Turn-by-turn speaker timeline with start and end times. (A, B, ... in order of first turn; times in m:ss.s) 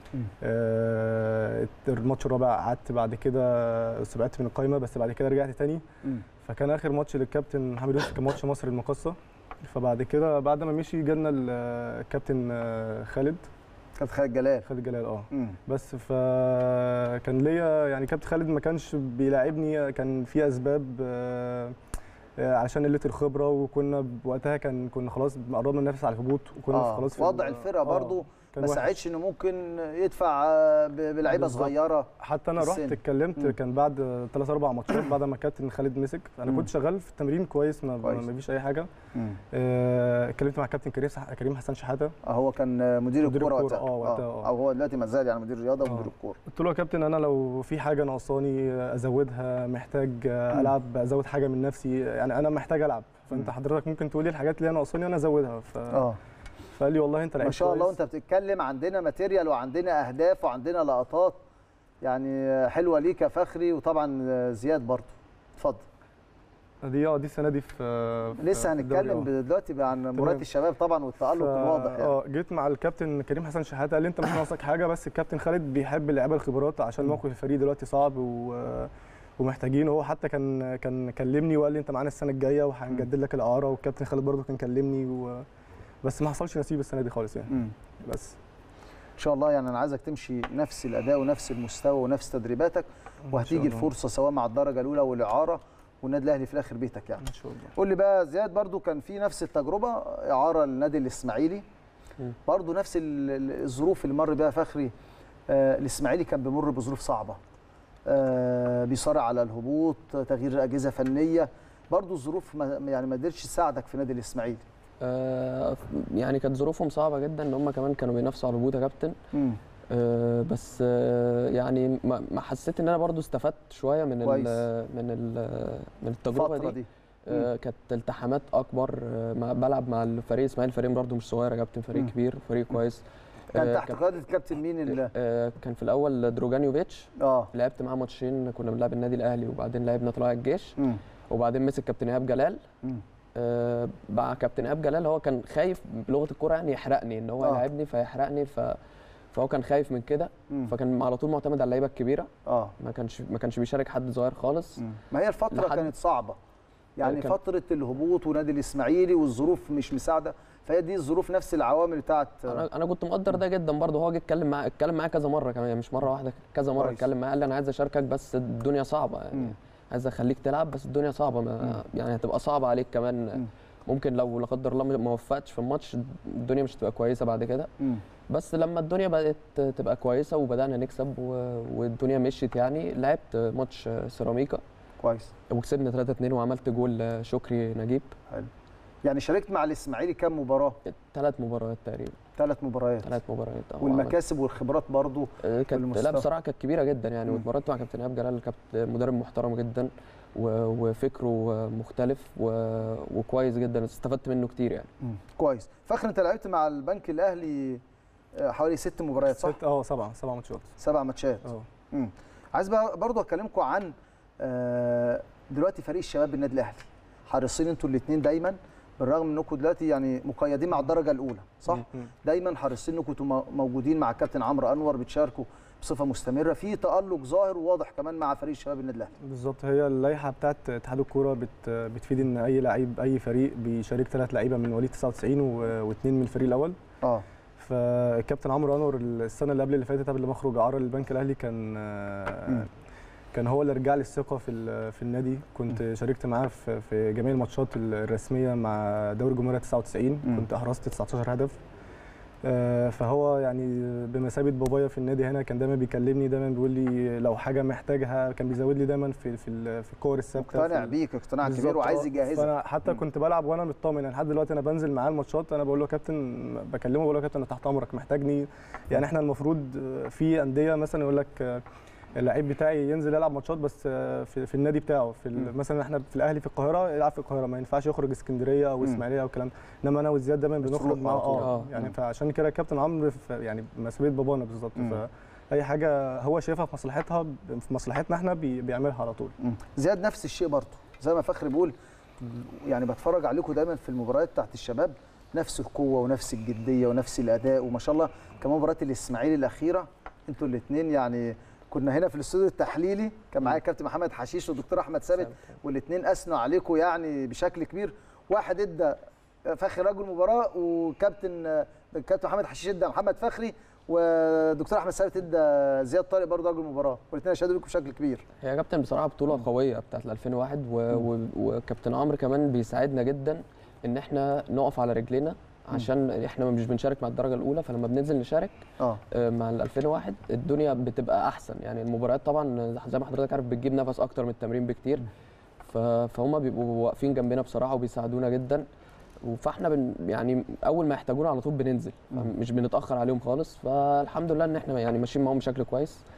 0:00.4-0:05.8 A
0:06.4-0:13.5 A
0:14.0-0:14.7 B
0:14.6-0:21.8 A
0:15.3-0:15.6 B
0:22.4-0:29.0 A
0:26.7-0:33.5 B
0:31.3-0:38.9 A
0:39.1-0:39.4 B
0:39.5-0:42.1 A
0:42.2-0:46.4 B
0:43.2-0:44.5 A
0:45.8-0:56.0 A
0:55.9-0:56.2 B
0:56.7-0:57.9 A
0:57.4-1:01.4 B
1:02.0-1:05.8 B
1:06.8-1:09.3 A
1:08.4-1:12.2 B
1:10.1-1:10.4 A
1:11.3-1:25.4 A
1:26.0-1:28.4 A
1:29.2-1:41.6 B
1:33.2-1:33.9 A
1:37.2-1:37.7 A
1:42.4-1:44.9 B
1:45.5-1:47.4 B
1:48.0-1:54.6 B
1:55.0-1:59.2 C
1:59.3-1:59.6 B
1:59.9-2:06.8 C
2:04.2-2:04.6 B
2:06.3-2:07.5 B
2:07.3-2:13.0 C
2:13.5-2:14.0 C
2:13.5-2:15.1 B
2:14.9-2:20.8 C
2:17.2-2:17.5 B
2:21.3-2:22.6 C
2:23.3-2:28.8 C
2:29.3-2:34.8 C
2:32.4-2:32.7 B
2:34.8-2:36.4 B
2:35.5-2:35.9 C
2:37.0-2:42.6 B
2:42.5-2:57.7 C
2:46.8-2:47.0 B
2:58.3-3:04.6 C
3:05.0-3:05.3 B
3:05.5-3:08.1 C
3:09.0-3:10.8 B
3:10.8-3:12.2 C
3:12.4-3:13.1 B
3:13.0-3:14.2 C
3:13.8-3:16.2 B
3:15.4-3:24.9 C
3:25.0-3:27.8 B
3:28.3-3:29.5 B
3:29.3-3:30.7 A
3:30.8-3:49.1 B
3:41.7-3:42.1 A
3:49.2-3:56.8 A
3:57.6-4:02.7 A
4:03.3-4:11.6 A
4:12.4-4:31.6 A
4:20.4-4:22.5 B
4:32.2-4:49.4 A
4:40.6-4:41.9 B
4:41.4-4:41.7 C
4:49.4-5:18.2 B
5:18.4-5:28.6 C
5:29.1-5:35.0 C
5:35.6-5:38.6 C
5:39.2-5:46.0 C